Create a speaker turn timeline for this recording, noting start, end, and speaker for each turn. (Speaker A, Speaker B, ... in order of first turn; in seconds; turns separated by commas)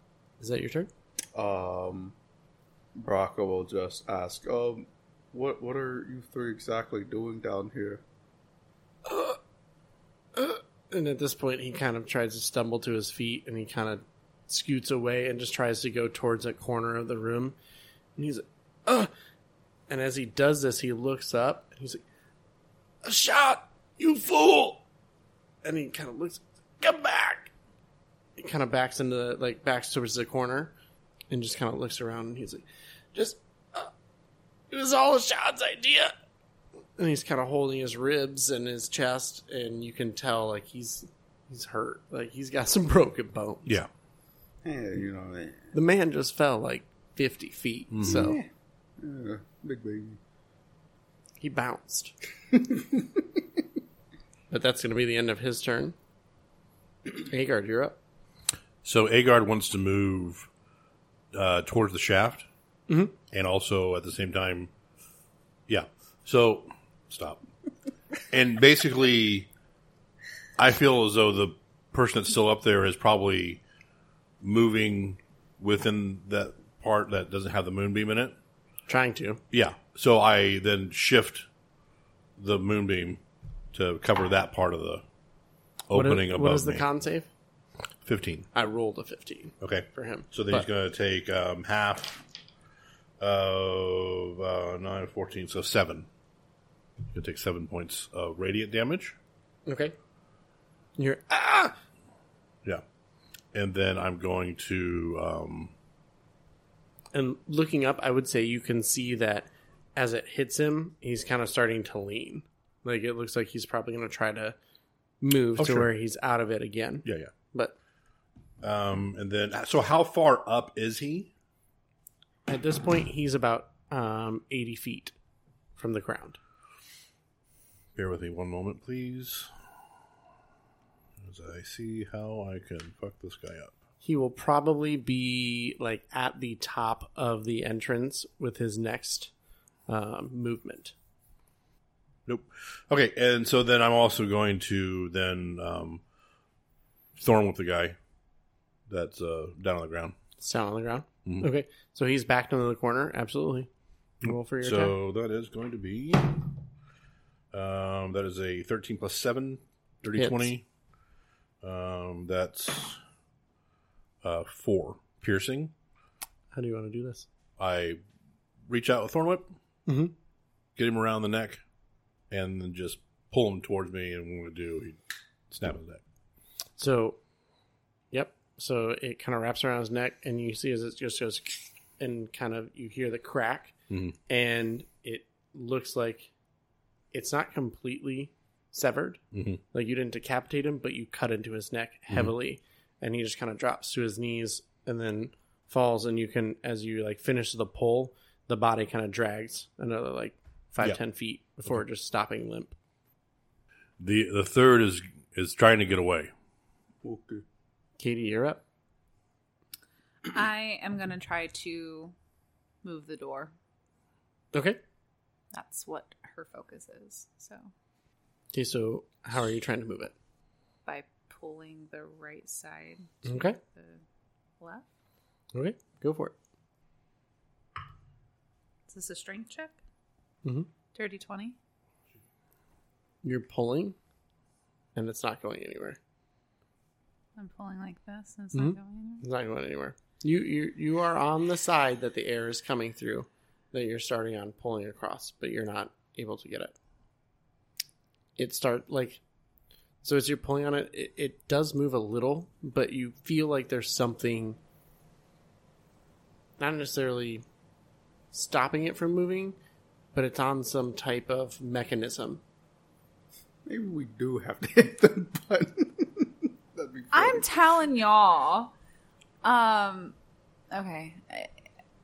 Speaker A: 0.4-0.9, Speaker B: 1.4-2.1, Speaker B: 3.0-8.0, Speaker A: 9.1-9.4, Speaker A: 10.3-17.6, Speaker A: 18.2-19.1, Speaker A: 19.9-22.0, Speaker A: 23.0-24.8, Speaker A: 25.6-27.5, Speaker A: 28.4-30.7, Speaker A: 31.3-33.9, Speaker A: 34.7-36.1, Speaker A: 37.0-43.8, Speaker B: 44.6-45.7, Speaker A: 45.7-48.4, Speaker C: 47.9-48.4, Speaker B: 48.0-48.5, Speaker B: 49.0-50.2, Speaker A: 51.4-52.1, Speaker B: 52.7-53.0, Speaker A: 54.5-56.0, Speaker A: 57.2-58.0, Speaker C: 58.8-60.5, Speaker C: 61.3-62.5, Speaker A: 62.9-63.1, Speaker C: 63.3-64.7, Speaker C: 65.7-67.4, Speaker C: 68.3-69.5, Speaker C: 70.6-73.6, Speaker C: 74.4-78.3, Speaker A: 78.9-79.4, Speaker C: 79.5-81.5, Speaker C: 82.4-83.2, Speaker C: 83.7-85.0, Speaker C: 85.9-86.8, Speaker A: 85.9-87.3, Speaker C: 88.0-88.5, Speaker A: 88.5-90.7, Speaker C: 89.6-92.2, Speaker C: 93.2-96.1, Speaker C: 97.1-99.2, Speaker A: 99.7-100.0, Speaker A: 101.0-101.8, Speaker C: 103.5-105.7, Speaker A: 107.1-114.6, Speaker A: 115.2-117.8, Speaker C: 115.6-115.9, Speaker C: 117.0-117.3, Speaker C: 118.6-121.3, Speaker A: 122.5-125.1, Speaker A: 125.8-126.4, Speaker C: 128.0-129.5, Speaker C: 131.2-133.8, Speaker A: 134.0-139.3, Speaker A: 139.9-140.9, Speaker C: 142.3-146.0, Speaker C: 147.2-148.0, Speaker C: 148.9-150.2, Speaker A: 150.4-153.7, Speaker A: 154.2-154.9, Speaker C: 154.2-156.5, Speaker C: 157.5-160.7, Speaker A: 160.2-160.5, Speaker C: 161.6-163.0, Speaker C: 164.2-165.7, Speaker A: 166.5-167.3, Speaker C: 167.6-168.0, Speaker C: 168.7-169.5, Speaker A: 169.9-170.1, Speaker C: 170.8-171.6, Speaker C: 172.3-175.0, Speaker C: 175.5-176.0, Speaker A: 176.8-177.2, Speaker A: 178.1-183.8, Speaker C: 183.9-184.2, Speaker A: 184.3-186.3, Speaker A: 187.1-189.2, Speaker C: 189.3-189.6, Speaker A: 189.7-202.7, Speaker C: 204.0-206.3, Speaker B: 207.0-207.4, Speaker A: 208.0-208.6, Speaker D: 210.3-212.1, Speaker D: 212.8-213.5, Speaker A: 214.5-214.8, Speaker D: 215.5-217.7, Speaker A: 218.5-220.1, Speaker D: 220.9-224.0, Speaker A: 223.2-223.6, Speaker D: 224.6-224.9, Speaker A: 225.5-226.3, Speaker D: 228.9-229.8, Speaker A: 230.4-230.7, Speaker D: 230.9-231.6, Speaker A: 233.2-234.0, Speaker A: 234.9-236.0, Speaker D: 237.4-239.2, Speaker A: 238.5-246.8, Speaker A: 248.4-249.2, Speaker A: 250.0-254.6, Speaker A: 256.6-257.4, Speaker A: 258.3-259.6, Speaker A: 260.1-262.4, Speaker B: 263.7-267.5, Speaker D: 267.1-268.7, Speaker D: 269.4-270.1, Speaker D: 270.7-271.5